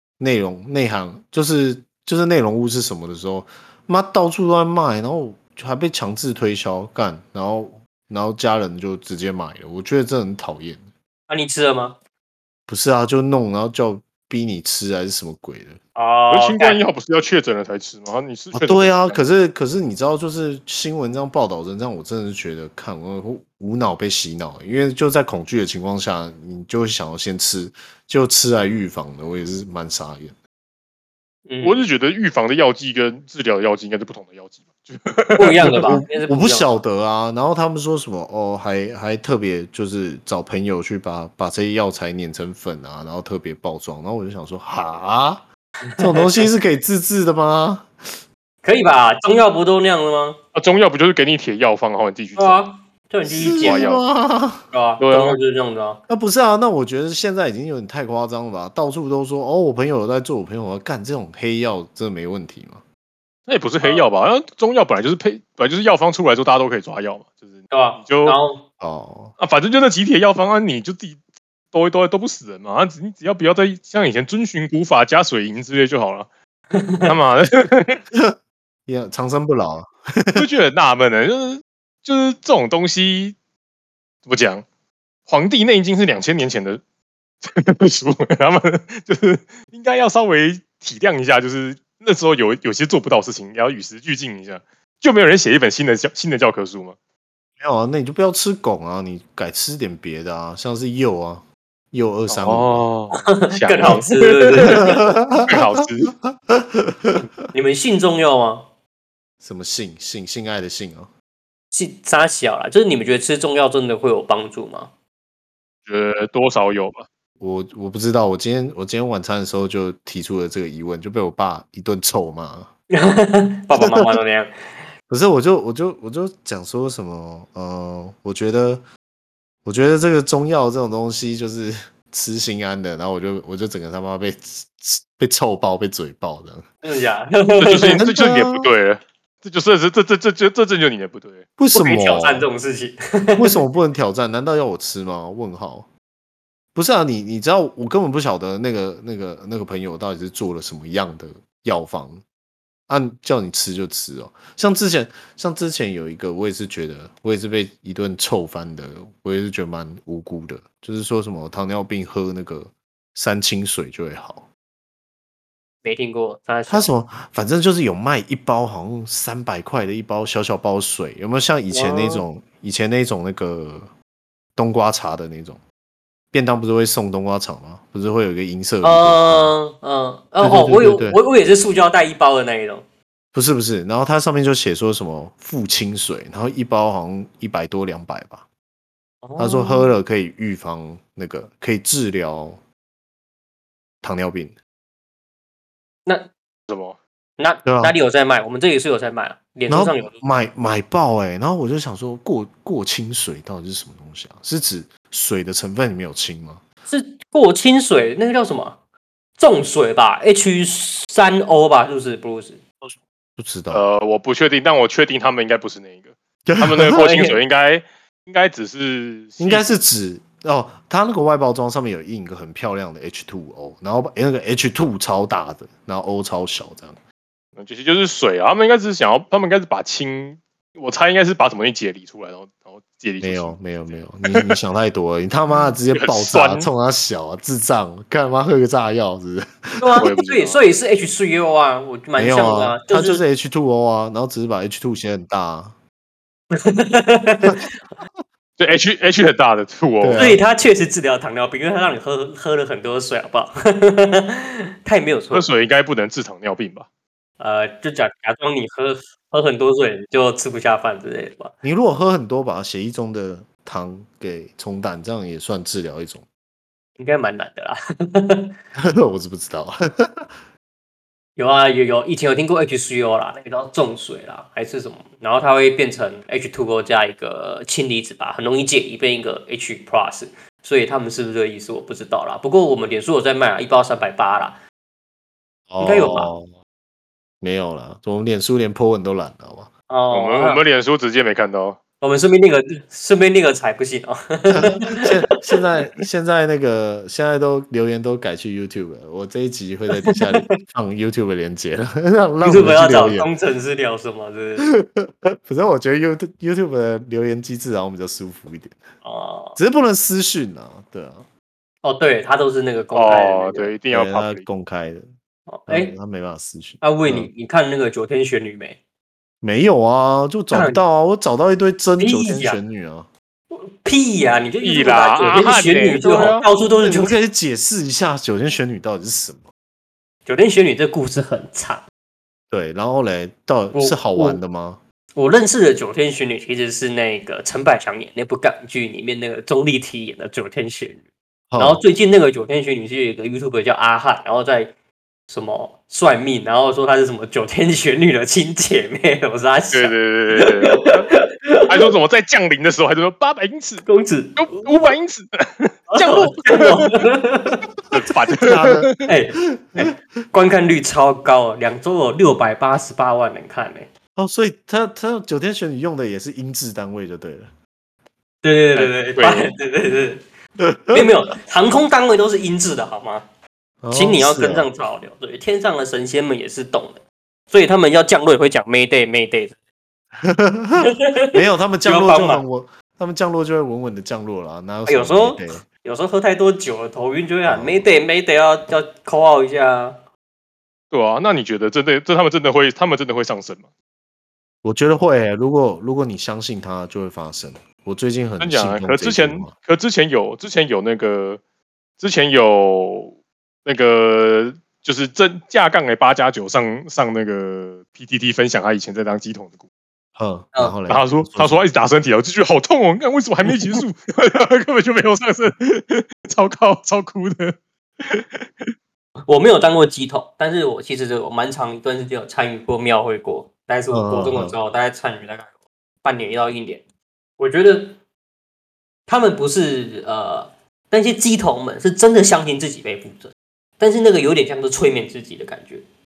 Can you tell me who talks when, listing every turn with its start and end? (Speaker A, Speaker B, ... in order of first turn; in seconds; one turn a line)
Speaker A: 0.2-10.8
Speaker B: 11.3-12.0
Speaker A: 12.7-15.8
Speaker B: 15.9-16.8
Speaker C: 16.3-19.2
Speaker A: 18.5-30.4
Speaker B: 31.5-31.8
Speaker C: 31.6-36.0
Speaker B: 35.4-36.7
Speaker A: 35.6-45.5
Speaker B: 46.0-46.3
Speaker A: 46.0-47.9
Speaker B: 48.6-50.4
Speaker C: 50.5-52.6
Speaker B: 52.4-53.9
Speaker A: 53.3-54.6
Speaker C: 53.5-54.0
Speaker B: 54.7-56.0
Speaker C: 55.0-55.4
Speaker A: 56.1-62.8
Speaker C: 63.5-68.4
Speaker B: 67.7-68.6
Speaker A: 68.8-69.3
Speaker C: 69.4-71.2
Speaker C: 71.7-76.3
Speaker B: 76.7-77.1
Speaker C: 77.0-78.0
Speaker A: 78.1-80.5
Speaker C: 80.3-83.4
Speaker C: 84.3-84.7
Speaker C: 85.3-86.8
Speaker C: 87.4-97.0
Speaker A: 97.6-102.9
Speaker C: 102.3-104.9
Speaker B: 103.1-105.0
Speaker A: 104.7-107.2
Speaker C: 105.5-106.2
Speaker B: 107.5-108.7
Speaker A: 109.4-111.1
Speaker B: 111.7-114.9
Speaker C: 115.9-117.1
Speaker A: 117.4-122.7
Speaker B: 122.9-124.5
Speaker A: 123.8-124.1
Speaker A: 125.1-128.8
Speaker A: 129.7-136.7
Speaker B: 136.8-138.0
Speaker C: 137.6-141.4
Speaker A: 138.0-138.7
Speaker A: 141.6-142.5
Speaker B: 141.7-143.6
Speaker A: 143.4-145.9
Speaker A: 146.8-152.2
Speaker A: 152.9-164.5
Speaker B: 165.8-166.9
Speaker A: 166.7-173.9
Speaker B: 171.7-172.2
Speaker A: 174.6-175.6
Speaker A: 176.3-179.6
Speaker B: 178.8-182.8
Speaker A: 180.4-181.2
Speaker A: 183.3-188.5
Speaker B: 189.2-189.9
Speaker A: 189.4-192.6
Speaker A: 194.0-194.6
Speaker C: 196.7-197.0
Speaker B: 197.4-200.2
Speaker A: 197.7-197.9
Speaker A: 199.7-206.6
Speaker B: 206.9-208.8
Speaker B: 209.4-212.6
Speaker A: 213.4-213.9
Speaker C: 213.7-219.7
Speaker A: 216.5-217.2
Speaker B: 216.9-217.4
Speaker A: 219.4-227.0
Speaker C: 227.6-234.6
Speaker A: 233.2-240.1
Speaker C: 235.6-236.7
Speaker B: 239.8-243.2
Speaker C: 240.0-240.6
Speaker A: 242.2-245.8
Speaker B: 246.5-247.7
Speaker C: 248.6-250.3
Speaker A: 250.0-250.4
Speaker B: 250.2-255.5
Speaker C: 255.3-256.9
Speaker B: 257.4-261.5
Speaker A: 261.6-266.3
Speaker B: 267.0-268.5
Speaker A: 268.8-270.3
Speaker B: 271.4-284.6
Speaker A: 285.7-286.5
Speaker B: 285.8-286.3
Speaker A: 287.4-289.7
Speaker B: 289.9-290.6
Speaker C: 290.1-291.8
Speaker B: 292.0-295.6
Speaker A: 294.5-303.3
Speaker B: 300.1-300.5
Speaker B: 302.4-304.7
Speaker A: 304.6-308.8
Speaker B: 309.0-309.6
Speaker A: 309.6-311.2
Speaker B: 311.8-313.7
Speaker C: 312.9-314.4
Speaker A: 313.9-315.1
Speaker B: 315.5-315.9
Speaker A: 315.7-317.3
Speaker B: 316.8-318.8
Speaker A: 319.4-323.1
Speaker B: 320.5-320.8
Speaker B: 322.0-322.6
Speaker B: 323.5-327.2
Speaker C: 324.6-326.5
Speaker A: 326.8-329.5
Speaker B: 330.3-331.9
Speaker A: 332.5-334.8
Speaker B: 333.7-334.4
Speaker B: 335.1-341.0
Speaker A: 341.5-341.8
Speaker B: 341.6-344.7
Speaker B: 345.3-351.9
Speaker C: 349.7-351.1
Speaker C: 351.7-353.9
Speaker B: 353.9-354.9
Speaker C: 354.4-356.9
Speaker B: 355.9-357.6
Speaker C: 357.9-359.1
Speaker A: 358.4-358.9
Speaker B: 359.1-363.9
Speaker A: 359.5-359.9
Speaker A: 364.2-367.5
Speaker B: 368.4-370.2
Speaker C: 368.8-369.5
Speaker A: 370.6-371.1
Speaker B: 370.9-373.2
Speaker A: 373.8-374.7
Speaker B: 373.9-379.6
Speaker A: 380.2-385.6
Speaker B: 380.9-382.4
Speaker B: 384.9-390.0
Speaker A: 387.5-387.9
Speaker C: 390.9-393.7
Speaker A: 394.6-399.5
Speaker C: 398.4-401.4
Speaker C: 402.0-409.6
Speaker A: 410.2-411.6
Speaker C: 410.9-418.4
Speaker B: 419.3-426.8
Speaker A: 423.9-424.6
Speaker B: 427.4-428.0
Speaker B: 429.1-435.8